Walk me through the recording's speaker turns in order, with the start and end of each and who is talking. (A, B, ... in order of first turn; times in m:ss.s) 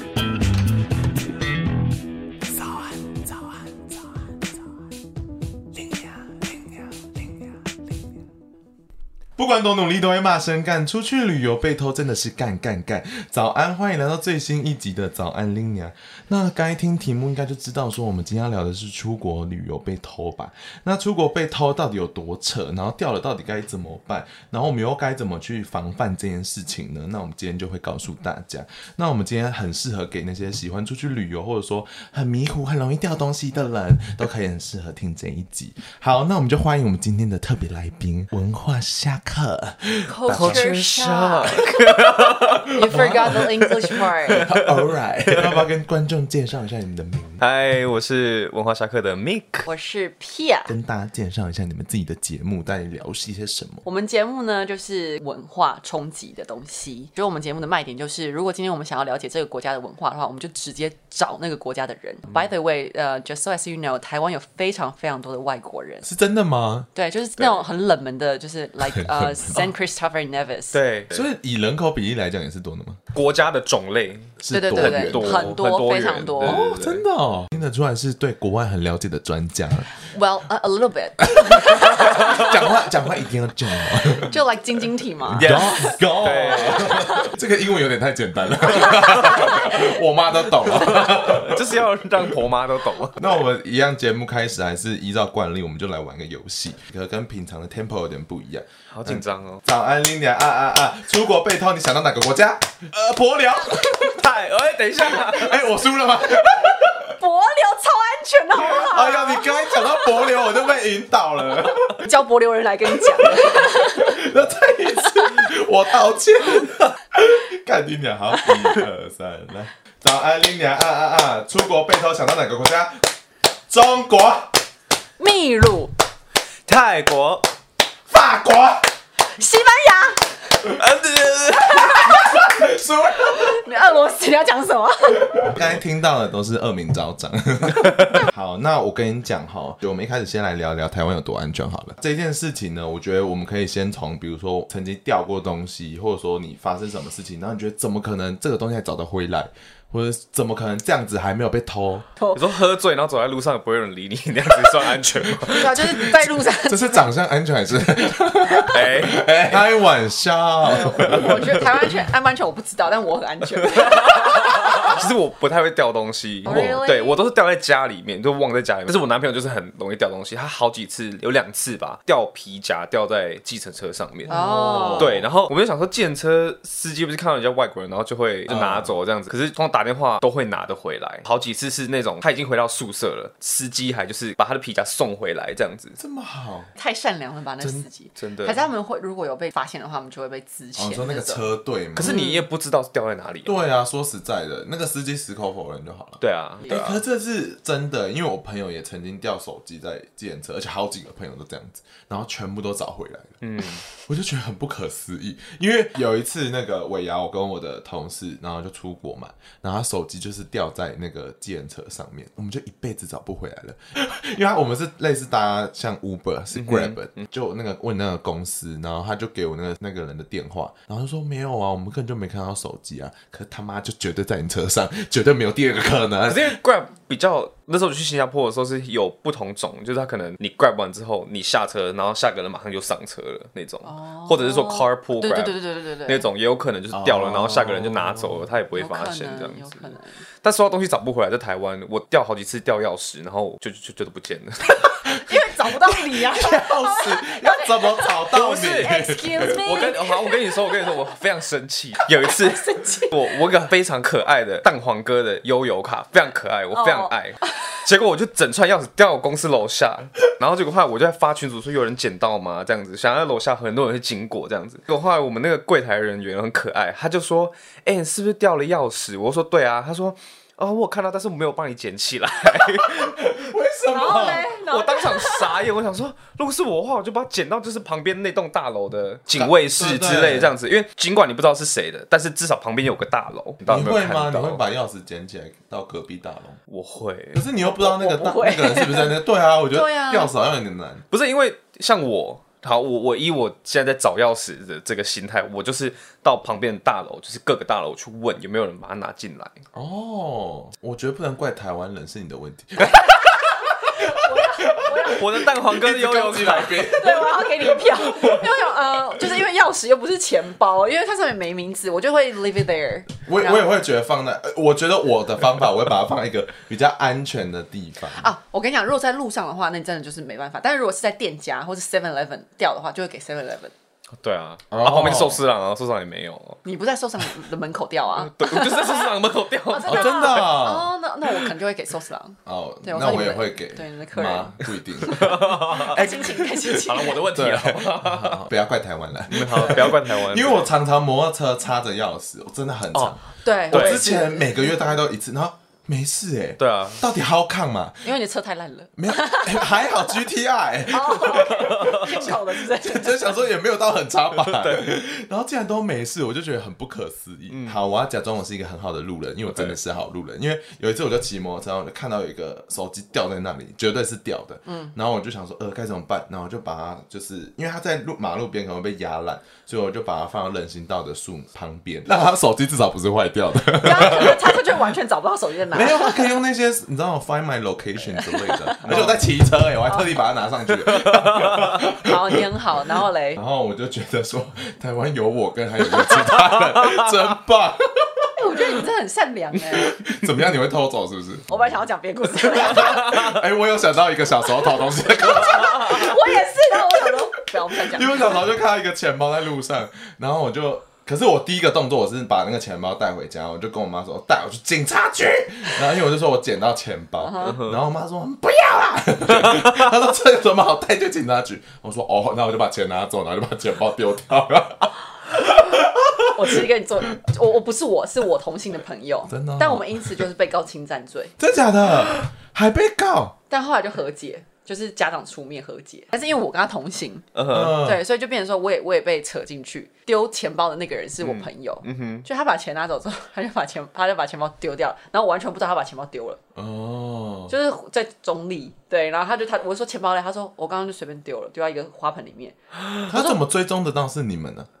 0:09.4-0:40.6 A
0:40.0-0:41.7 B
0:40.3-0:42.7 C
0:42.7-0:44.5 B
0:42.8-0:43.4 A
0:44.3-0:47.4 A
0:47.4-0:49.7 C
0:49.6-0:50.7 B
0:50.7-0:53.8 A
0:53.8-1:06.1 B
1:06.0-1:06.9 A
1:06.9-1:10.8 B
1:08.8-1:09.7 A
1:10.7-1:11.2 C
1:11.1-1:13.0 A
1:13.1-1:17.0 C
1:14.4-1:15.6 A
1:14.5-1:16.7 B
1:16.4-1:19.9 A
1:20.0-1:22.5 B
1:21.4-1:24.3 A
1:24.1-1:27.3 B
1:25.3-1:31.9 A
1:25.4-1:27.1 C
1:28.8-1:29.8 B
1:30.8-1:33.3 C
1:33.1-1:44.3 A
1:38.9-1:39.6 C
1:44.0-1:45.7 C
1:45.0-1:47.1 A
1:47.0-1:50.3 B
1:48.6-1:52.0 A
1:52.0-1:54.2 B
1:52.9-2:03.1 A
2:03.7-2:04.6 A
2:05.2-2:05.9 B
2:06.7-2:07.5 C
2:08.1-2:08.9 A
2:09.4-2:10.4 B
2:10.6-2:12.0 C
2:11.7-2:12.4 B
2:11.9-2:13.6 A
2:13.2-2:15.5 B
2:15.4-2:32.1 A
2:32.3-2:36.1 C
2:35.5-2:37.0 B
2:35.9-2:41.8 A
2:38.7-2:39.6 C
2:40.6-2:45.0 B
2:43.8-3:06.0 C
2:46.4-2:47.2 B
2:46.4-2:46.8 A
2:54.3-2:55.1 B
2:54.3-2:55.2 A
2:58.5-2:58.9 A
3:06.0-3:06.7 A
3:06.8-3:11.5 B
3:07.6-3:07.8 A
3:08.2-3:08.6 C
3:10.8-3:12.2 A
3:11.9-3:13.6 C
3:12.0-3:12.4 B
3:13.4-3:46.6 A
3:16.2-3:17.0 C
3:23.4-3:23.8 C
3:36.5-3:37.1 C
3:46.2-4:04.7 C
3:53.8-3:56.3 B
3:56.9-3:58.4 A
3:58.8-4:00.2 B
4:04.8-4:09.8 A
4:05.1-4:10.5 B
4:08.3-4:33.3 C
4:12.4-4:13.2 B
4:16.7-4:17.6 B
4:32.7-4:34.5 A
4:33.9-4:35.6 B
4:34.1-4:44.6 C
4:39.3-4:40.5 A
4:43.7-4:46.6 A
4:46.7-4:47.4 C
4:47.3-4:51.0 A
4:47.7-4:49.2 B
4:49.7-4:50.3 B
4:51.1-4:59.6 C
4:59.7-5:08.4 A
5:02.8-5:05.2 B
5:05.0-5:06.9 C
5:06.8-5:13.6 B
5:13.2-5:18.2 A
5:18.1-5:23.7 B
5:24.1-5:26.6 C
5:24.7-5:25.4 A
5:26.6-5:29.2 B
5:28.1-5:30.4 C
5:29.7-5:37.2 B
5:29.8-5:30.9 A
5:32.4-5:48.1 A
5:35.0-5:36.0 C
5:36.6-5:38.4 C
5:39.3-5:40.7 C
5:43.4-5:44.7 B
5:43.7-5:44.0 C
5:46.6-5:47.0 C
5:48.0-5:50.2 B
5:49.0-6:14.8 A
5:50.9-5:53.4 B
5:51.6-5:52.0 C
5:54.4-5:54.8 C
5:57.5-5:57.8 C
5:59.5-5:59.8 C
6:04.6-6:04.9 B
6:13.8-6:16.4 B
6:15.7-6:22.8 A
6:18.1-6:19.1 B
6:21.8-6:23.4 B
6:23.3-6:28.8 A
6:28.4-6:30.0 B
6:29.5-6:31.5 A
6:31.5-6:33.3 B
6:32.5-6:56.3 A
6:34.8-6:38.5 B
6:47.2-6:47.6 B
6:47.4-6:47.8 C
6:56.3-7:01.3 B
6:59.3-7:00.2 A
7:01.4-7:03.3 A
7:03.5-7:16.4 B
7:07.4-7:07.8 C
7:07.5-7:08.0 A
7:11.2-7:12.2 C
7:16.6-7:17.5 A
7:17.5-7:22.6 B
7:23.1-7:24.7 A
7:23.1-7:23.4 B